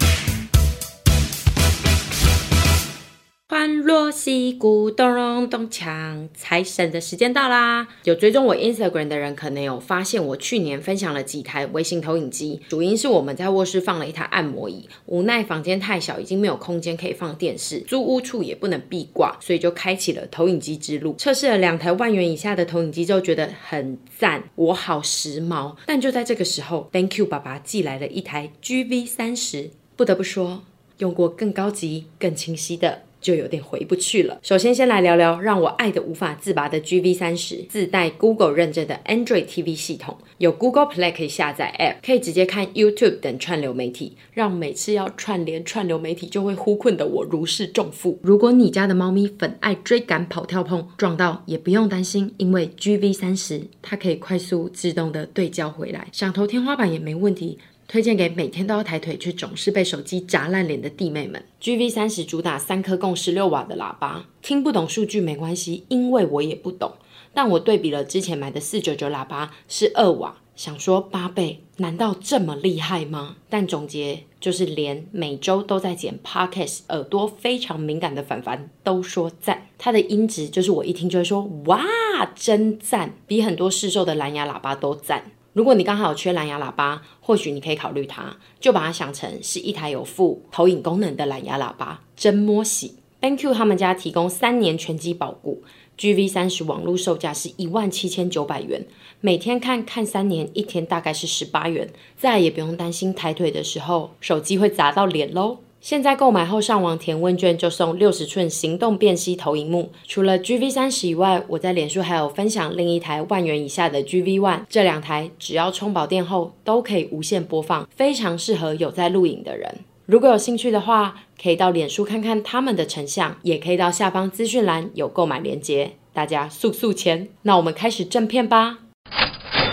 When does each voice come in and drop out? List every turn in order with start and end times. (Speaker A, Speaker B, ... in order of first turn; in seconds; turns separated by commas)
Speaker A: 3.5-128.8